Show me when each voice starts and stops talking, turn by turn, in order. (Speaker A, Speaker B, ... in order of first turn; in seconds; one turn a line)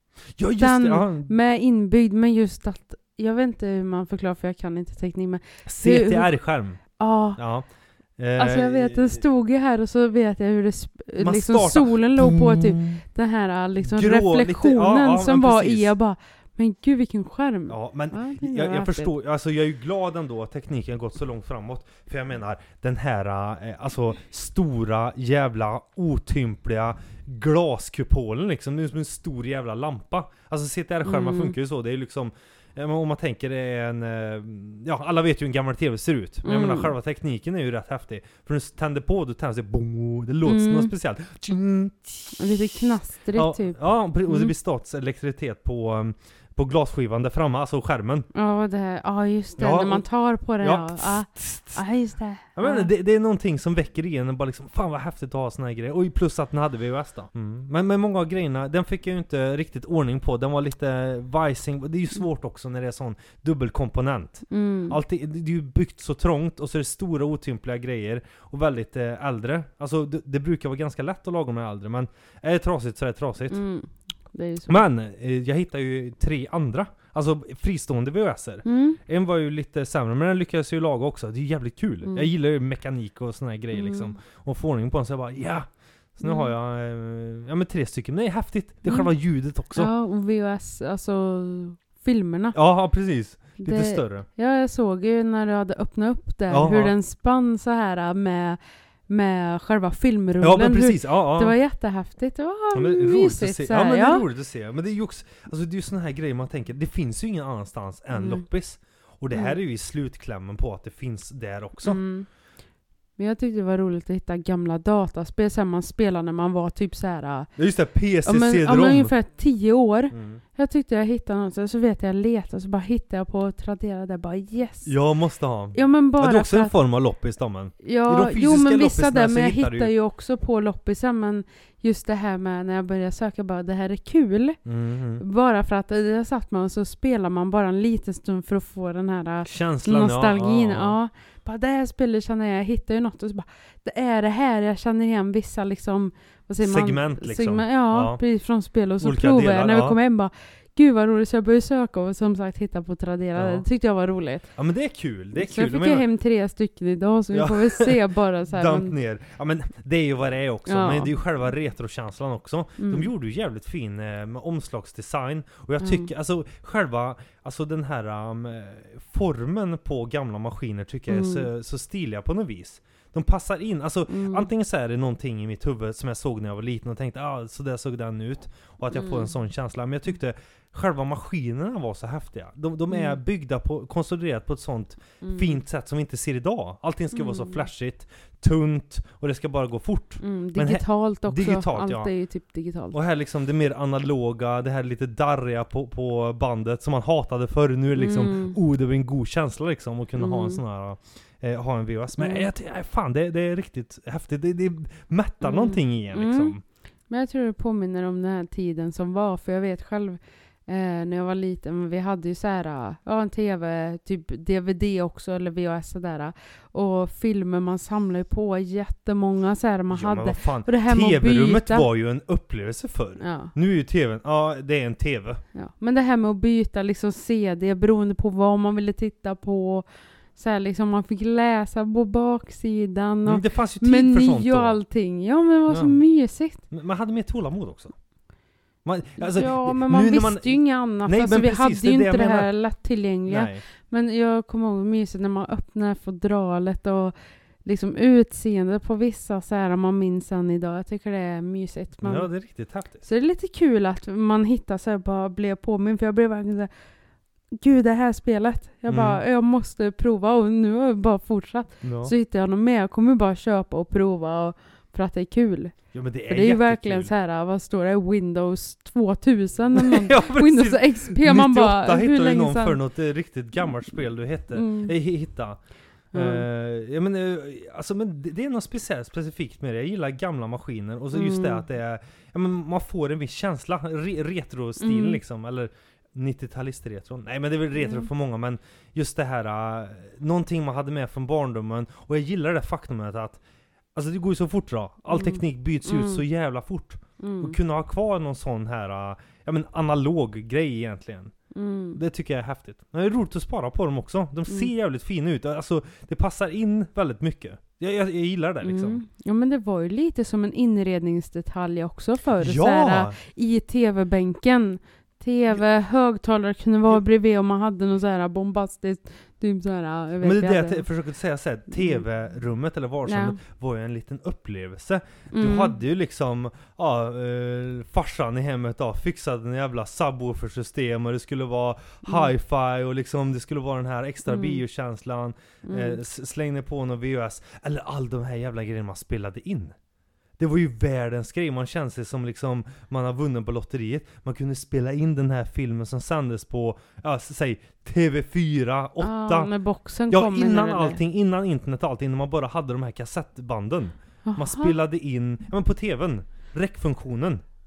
Speaker A: 0.4-1.3
Speaker B: 0.6-6.3
Speaker A: 5.6-9.2
Speaker B: 7.0-7.4
Speaker B: 8.4-19.1
Speaker A: 11.2-13.0
Speaker A: 13.8-15.9
Speaker A: 17.7-48.3
Speaker B: 31.0-31.5
Speaker B: 36.4-36.9
Speaker B: 40.4-40.9
Speaker B: 42.4-44.5
Speaker B: 48.3-52.9
Speaker A: 49.6-50.0
Speaker A: 50.6-51.8
Speaker A: 52.5-73.6
Speaker B: 64.5-65.0
Speaker B: 73.5-74.8
Speaker A: 74.7-89.9
Speaker B: 78.6-79.0
Speaker B: 83.7-84.2
Speaker B: 86.2-86.5
Speaker B: 88.8-89.1
Speaker B: 89.7-92.6
Speaker A: 92.5-94.2
Speaker B: 93.6-104.2
Speaker A: 96.5-96.9
Speaker A: 100.4-101.5
Speaker A: 102.7-112.0
Speaker B: 108.1-108.4
Speaker B: 111.8-112.3
Speaker B: 113.2-117.5
Speaker A: 117.6-119.1
Speaker B: 118.2-124.9
Speaker A: 120.1-120.4
Speaker A: 124.8-129.9
Speaker B: 125.7-126.7
Speaker B: 127.8-134.6
Speaker A: 134.6-135.2
Speaker B: 135.2-154.5
Speaker A: 139.4-140.9
Speaker A: 146.6-148.2
Speaker A: 149.0-150.0
Speaker A: 153.3-153.6
Speaker A: 154.5-156.0
Speaker B: 155.3-158.9
Speaker A: 157.3-192.1
Speaker B: 160.7-161.1
Speaker B: 162.8-163.1
Speaker B: 165.8-166.1
Speaker B: 171.1-171.5
Speaker B: 174.1-174.5
Speaker B: 178.9-179.3
Speaker B: 182.9-183.2
Speaker B: 185.2-185.6
Speaker B: 187.1-187.7
Speaker B: 190.2-193.0
Speaker A: 192.9-206.6
Speaker B: 197.9-198.6
Speaker B: 200.2-200.6
Speaker B: 202.2-202.4
Speaker B: 205.4-206.5
Speaker B: 207.1-221.9
Speaker A: 219.9-225.4
Speaker B: 223.2-223.5
Speaker B: 225.5-236.6
Speaker A: 233.2-234.8
Speaker A: 235.7-236.0
Speaker A: 236.7-237.9
Speaker A: 238.8-242.5
Speaker B: 239.2-252.3
Speaker A: 243.3-243.6
Speaker A: 252.0-253.0
Speaker B: 253.0-256.7
Speaker B: 257.6-272.8
Speaker A: 258.9-259.2
Speaker A: 261.8-262.1
Speaker A: 265.9-267.1
Speaker A: 269.7-275.6
Speaker B: 274.5-274.9
Speaker A: 276.1-293.4
Speaker B: 276.1-276.4
Speaker B: 281.1-281.6
Speaker B: 284.8-285.2
Speaker B: 287.8-288.1
Speaker A: 293.9-301.3
Speaker B: 295.1-296.2
Speaker B: 297.2-297.6
Speaker B: 301.5-302.0
Speaker A: 301.9-309.0
Speaker B: 308.6-320.8
Speaker A: 312.4-313.1
Speaker A: 320.2-339.7
Speaker B: 321.7-322.0
Speaker B: 323.0-323.4
Speaker B: 325.3-325.8
Speaker B: 332.0-332.3
Speaker B: 334.3-334.6
Speaker B: 335.6-336.0
Speaker A: 340.4-349.5
Speaker B: 349.0-351.0
Speaker A: 350.1-357.4
Speaker B: 354.2-354.7